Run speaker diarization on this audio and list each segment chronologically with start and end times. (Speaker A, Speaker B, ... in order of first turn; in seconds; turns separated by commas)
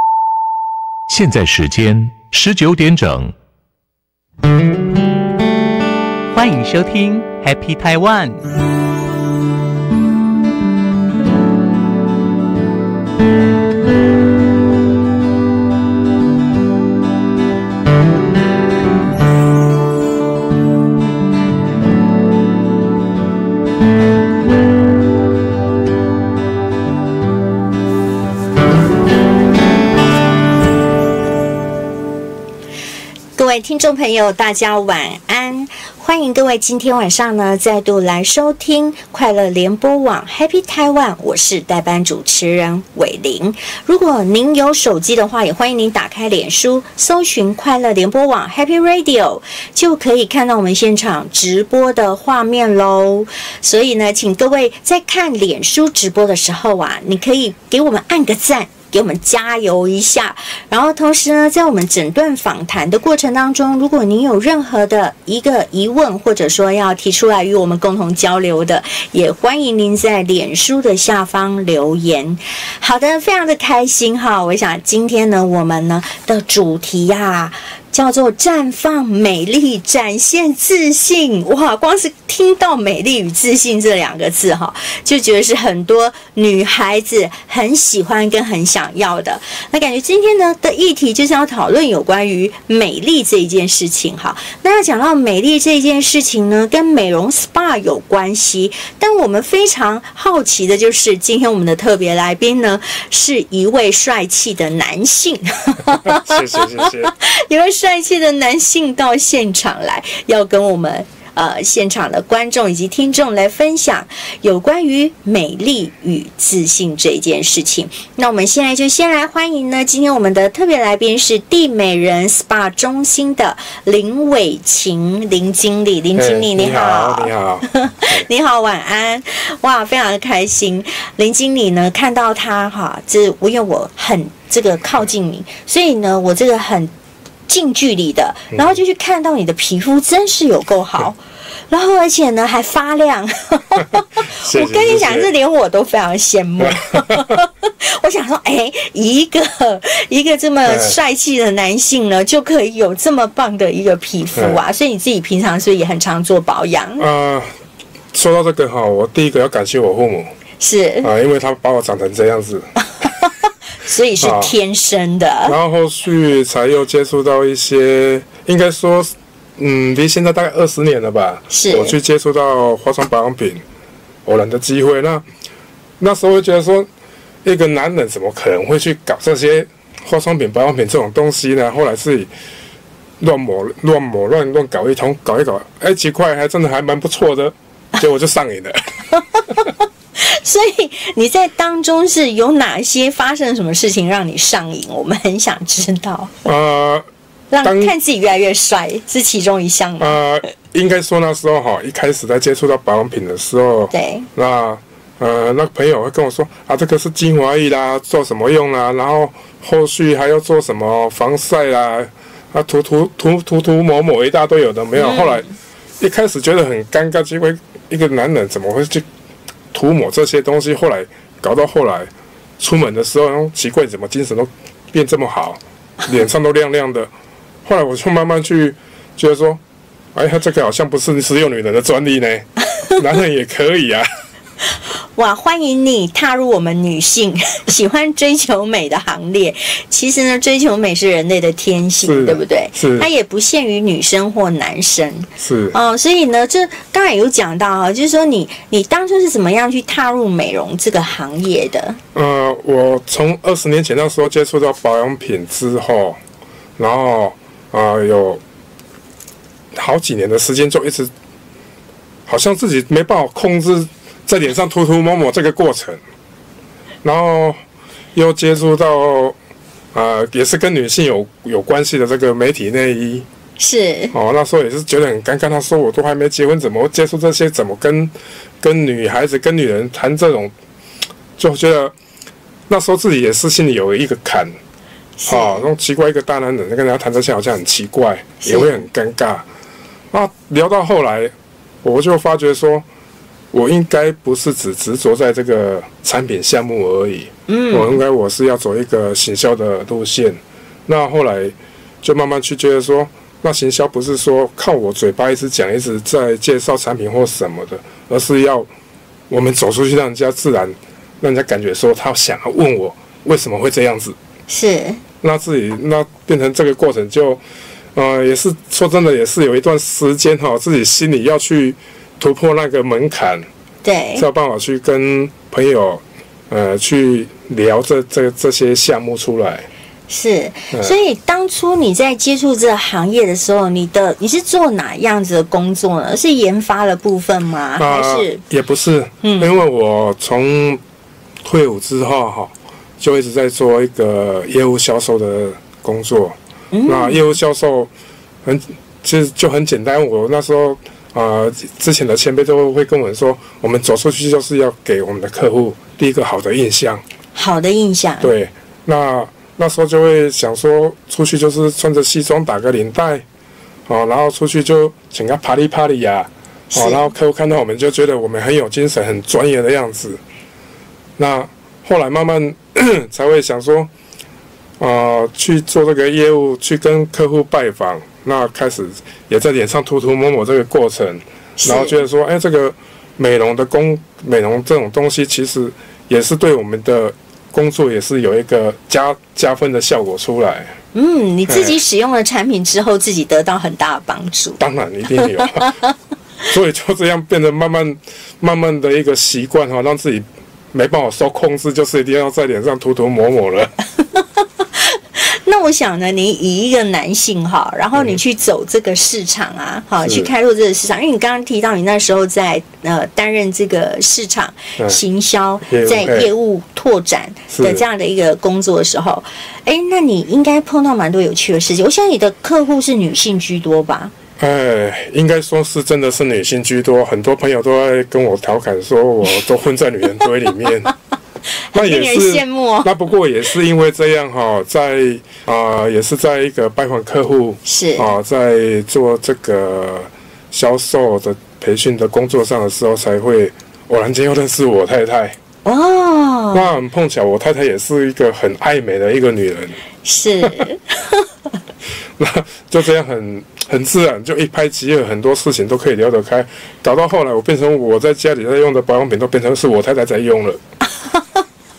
Speaker A: 1.1-3.3, Speaker B: 6.3-8.4, Speaker C: 33.4-136.9, Speaker D: 105.8-107.1, Speaker D: 126.1-128.3, Speaker C: 137.5-157.0, Speaker D: 144.4-145.3, Speaker D: 146.6-147.4, Speaker D: 150.6-150.9, Speaker D: 154.3-154.6, Speaker D: 157.0-157.5, Speaker D: 158.1-160.3, Speaker C: 160.6-161.1, Speaker D: 161.0-162.7, Speaker C: 163.0-163.3, Speaker C: 163.8-165.6, Speaker D: 164.2-164.5, Speaker D: 165.4-173.6, Speaker C: 171.5-171.9, Speaker D: 174.2-175.2, Speaker D: 176.0-176.9, Speaker D: 177.4-182.3, Speaker D: 183.2-188.8, Speaker C: 189.5-196.3, Speaker D: 196.4-197.1, Speaker C: 197.5-200.2, Speaker D: 197.6-197.9, Speaker D: 200.0-215.5, Speaker C: 203.9-204.3, Speaker C: 215.0-215.5, Speaker D: 216.0-219.0, Speaker D: 219.7-227.1, Speaker D: 227.6-229.6, Speaker D: 230.1-234.1, Speaker C: 235.2-252.0, Speaker D: 242.0-243.1, Speaker D: 245.4-245.8, Speaker D: 252.1-256.2, Speaker D: 256.8-258.4, Speaker D: 259.7-261.1, Speaker D: 262.3-266.0, Speaker D: 267.0-267.6, Speaker D: 268.1-269.4, Speaker D: 269.9-273.2, Speaker C: 273.6-274.1, Speaker D: 274.1-280.5, Speaker D: 281.4-281.9, Speaker D: 282.7-284.6, Speaker C: 285.2-285.7, Speaker D: 285.3-289.4, Speaker C: 288.4-288.8, Speaker D: 290.1-292.8, Speaker D: 293.5-308.7, Speaker C: 297.5-298.0, Speaker D: 309.3-314.1, Speaker C: 314.5-315.0, Speaker D: 315.2-317.4, Speaker D: 317.9-323.5, Speaker C: 323.8-324.2, Speaker D: 324.1-329.7, Speaker C: 330.1-338.4, Speaker D: 337.8-340.8, Speaker C: 339.2-339.5, Speaker D: 341.4-347.9, Speaker C: 346.7-347.2, Speaker D: 348.4-357.0, Speaker C: 357.3-358.3, Speaker D: 358.2-363.2, Speaker D: 363.9-370.2, Speaker C: 366.7-367.1, Speaker D: 371.2-373.9, Speaker D: 374.8-390.7, Speaker C: 381.6-382.0, Speaker C: 390.9-394.6, Speaker D: 391.5-391.8, Speaker D: 394.6-395.7, Speaker C: 395.2-395.9, Speaker D: 396.5-403.7, Speaker C: 404.8-424.1, Speaker D: 410.0-410.3, Speaker D: 415.6-416.3, Speaker D: 417.5-417.8, Speaker D: 424.4-430.9, Speaker C: 431.7-432.9, Speaker D: 431.7-445.4, Speaker C: 437.6-438.1, Speaker C: 445.6-446.7, Speaker D: 446.5-449.8, Speaker C: 450.0-451.3, Speaker D: 452.2-460.6, Speaker C: 460.9-461.4